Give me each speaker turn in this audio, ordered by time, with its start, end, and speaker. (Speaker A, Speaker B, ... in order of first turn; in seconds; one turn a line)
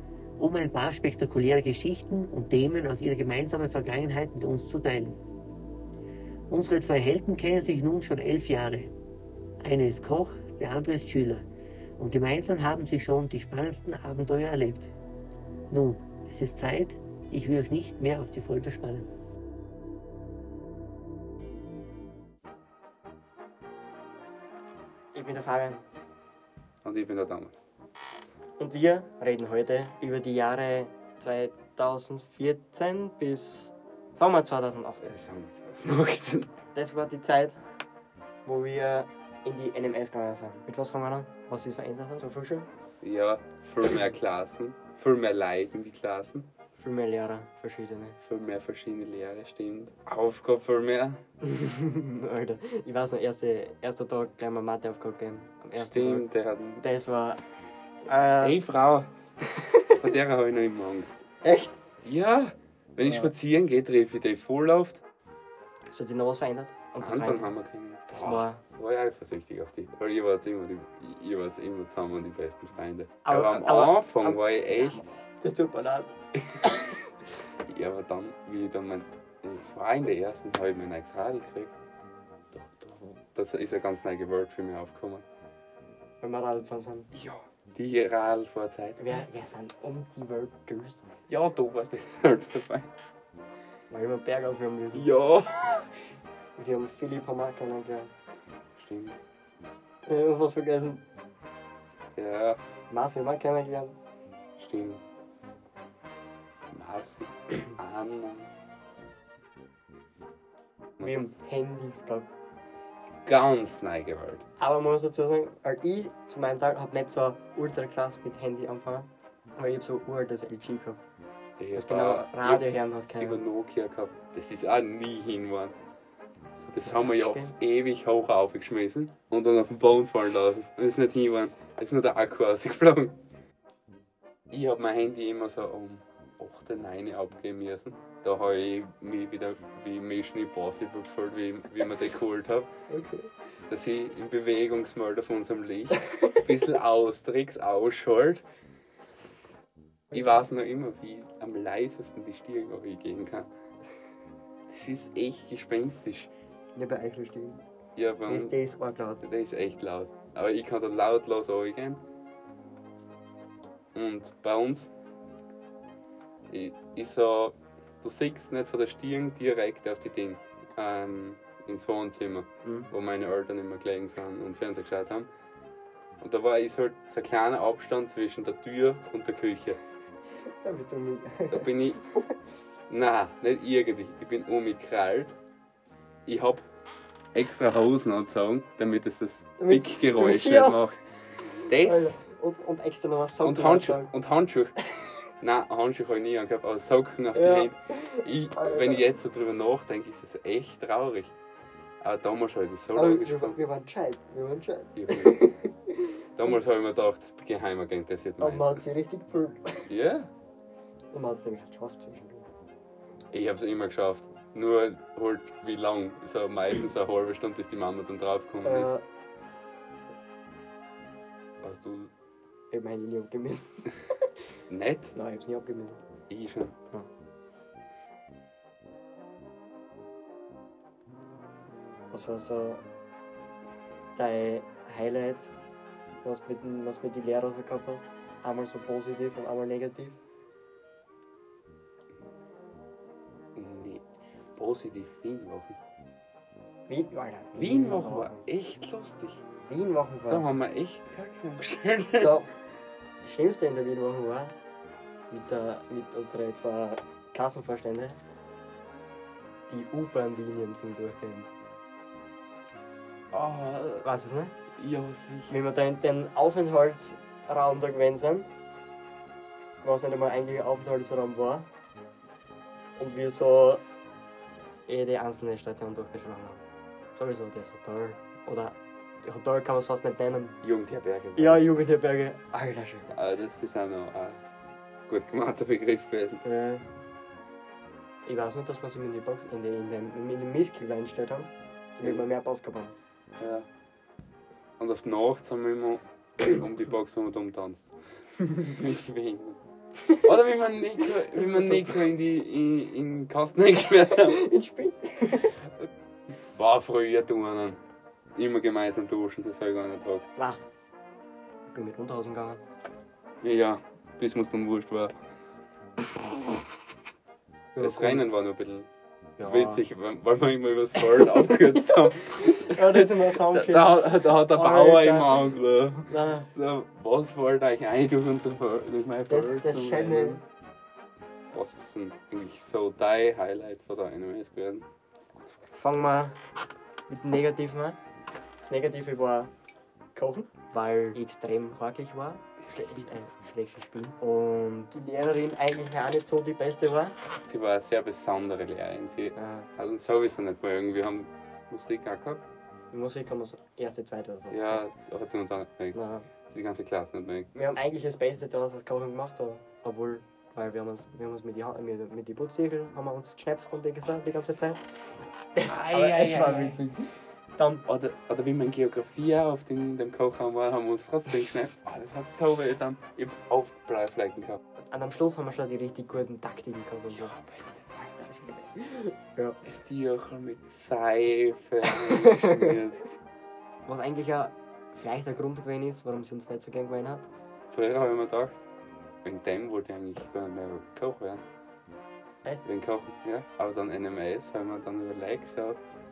Speaker A: 0.4-5.2
Speaker A: 6.5-8.9
Speaker A: 9.6-11.5
Speaker A: 12.0-14.9
Speaker A: 15.7-19.1
Speaker B: 25.1-25.8
Speaker C: 26.8-27.6
Speaker B: 28.6-35.1
Speaker C: 35.0-36.5
Speaker B: 36.7-37.7
Speaker B: 38.5-42.7
Speaker C: 43.0-46.5
Speaker B: 46.8-48.2
Speaker C: 48.2-51.2
Speaker B: 51.4-56.3
Speaker C: 55.8-56.8
Speaker B: 56.8-57.4
Speaker B: 58.0-58.6
Speaker C: 58.4-59.1
Speaker B: 59.6-60.0
Speaker C: 60.0-61.2
Speaker B: 61.4-61.8
Speaker C: 62.0-65.0
Speaker B: 63.0-63.3
Speaker B: 65.9-67.5
Speaker C: 67.0-75.0
Speaker B: 68.1-68.6
Speaker B: 73.2-77.0
Speaker C: 76.4-76.9
Speaker C: 77.7-81.7
Speaker C: 82.5-85.2
Speaker B: 86.2-87.1
Speaker C: 87.1-89.2
Speaker B: 89.0-91.1
Speaker C: 91.3-92.9
Speaker B: 93.9-95.1
Speaker C: 94.9-95.9
Speaker B: 96.6-98.1
Speaker C: 98.8-99.2
Speaker B: 100.0-101.0
Speaker C: 102.2-102.6
Speaker B: 102.9-104.0
Speaker C: 104.6-105.0
Speaker C: 106.7-108.5
Speaker B: 111.0-112.3
Speaker C: 113.2-114.4
Speaker B: 114.6-121.0
Speaker C: 121.6-125.8
Speaker B: 121.8-123.4
Speaker B: 126.5-127.5
Speaker C: 126.7-133.2
Speaker C: 134.5-142.7
Speaker B: 142.9-143.3
Speaker C: 143.7-148.4
Speaker C: 150.1-153.5
Speaker C: 154.7-156.3
Speaker B: 156.7-157.6
Speaker C: 157.9-158.5
Speaker B: 158.2-159.2
Speaker C: 159.2-162.0
Speaker C: 163.9-164.9
Speaker C: 166.5-175.3
Speaker B: 172.6-172.9
Speaker C: 176.2-179.8
Speaker B: 180.5-182.3
Speaker C: 181.5-182.0
Speaker C: 182.9-185.3
Speaker C: 186.2-186.6
Speaker C: 187.3-191.0
Speaker B: 189.6-190.8
Speaker C: 191.6-192.2
Speaker B: 191.7-194.1
Speaker C: 193.4-194.9
Speaker C: 195.4-201.3
Speaker B: 197.3-199.1
Speaker C: 202.0-203.6
Speaker B: 202.9-206.2
Speaker C: 204.9-205.4
Speaker C: 206.4-208.8
Speaker B: 208.4-209.9
Speaker C: 209.9-210.3
Speaker B: 211.1-212.5
Speaker C: 213.3-218.9
Speaker B: 218.6-219.0
Speaker C: 221.6-222.1
Speaker B: 222.7-224.1
Speaker C: 224.7-225.1
Speaker B: 225.1-226.0
Speaker C: 226.3-226.7
Speaker B: 232.1-232.8
Speaker B: 234.1-235.5
Speaker B: 236.2-240.2
Speaker C: 243.6-244.0
Speaker C: 244.6-245.8
Speaker B: 246.9-248.4
Speaker C: 247.6-249.4
Speaker B: 249.7-250.5
Speaker C: 250.3-252.4
Speaker B: 252.2-252.5
Speaker B: 253.2-254.6
Speaker B: 255.3-258.2
Speaker B: 259.7-261.5
Speaker C: 263.3-264.1
Speaker B: 264.0-264.6
Speaker C: 264.8-265.6
Speaker B: 265.5-268.5
Speaker B: 269.8-271.7
Speaker B: 273.0-273.8
Speaker B: 274.9-276.6
Speaker B: 277.1-280.6
Speaker C: 280.6-281.8
Speaker B: 281.4-283.1
Speaker C: 283.1-284.4
Speaker C: 285.1-286.4
Speaker B: 286.4-286.8
Speaker B: 288.2-292.9
Speaker C: 293.4-293.6
Speaker C: 294.8-297.9
Speaker C: 298.4-299.6
Speaker C: 300.2-304.5
Speaker B: 301.3-302.0
Speaker B: 304.1-305.6
Speaker C: 306.6-307.8
Speaker C: 308.4-310.3
Speaker B: 310.4-310.6
Speaker B: 311.7-312.6
Speaker C: 313.4-315.1
Speaker B: 317.8-318.2
Speaker C: 317.8-318.9
Speaker B: 319.4-319.8
Speaker C: 319.4-330.4
Speaker B: 321.2-321.8
Speaker B: 322.3-325.4
Speaker B: 326.1-326.5
Speaker B: 329.3-330.4
Speaker C: 331.5-334.9
Speaker B: 335.7-336.4
Speaker B: 337.1-338.0
Speaker B: 338.6-339.5
Speaker B: 340.1-347.2
Speaker C: 342.7-343.0
Speaker C: 347.5-352.4
Speaker B: 349.3-349.7
Speaker B: 352.9-354.8
Speaker C: 354.5-356.0
Speaker B: 355.9-356.3
Speaker C: 356.5-357.5
Speaker B: 357.5-367.8
Speaker C: 365.6-366.8
Speaker C: 367.9-374.6
Speaker B: 374.9-377.4
Speaker C: 377.1-377.9
Speaker B: 378.0-379.6
Speaker C: 379.6-383.1
Speaker B: 381.9-382.8
Speaker B: 383.9-387.3
Speaker C: 387.7-388.6
Speaker C: 389.2-391.4
Speaker C: 392.6-395.8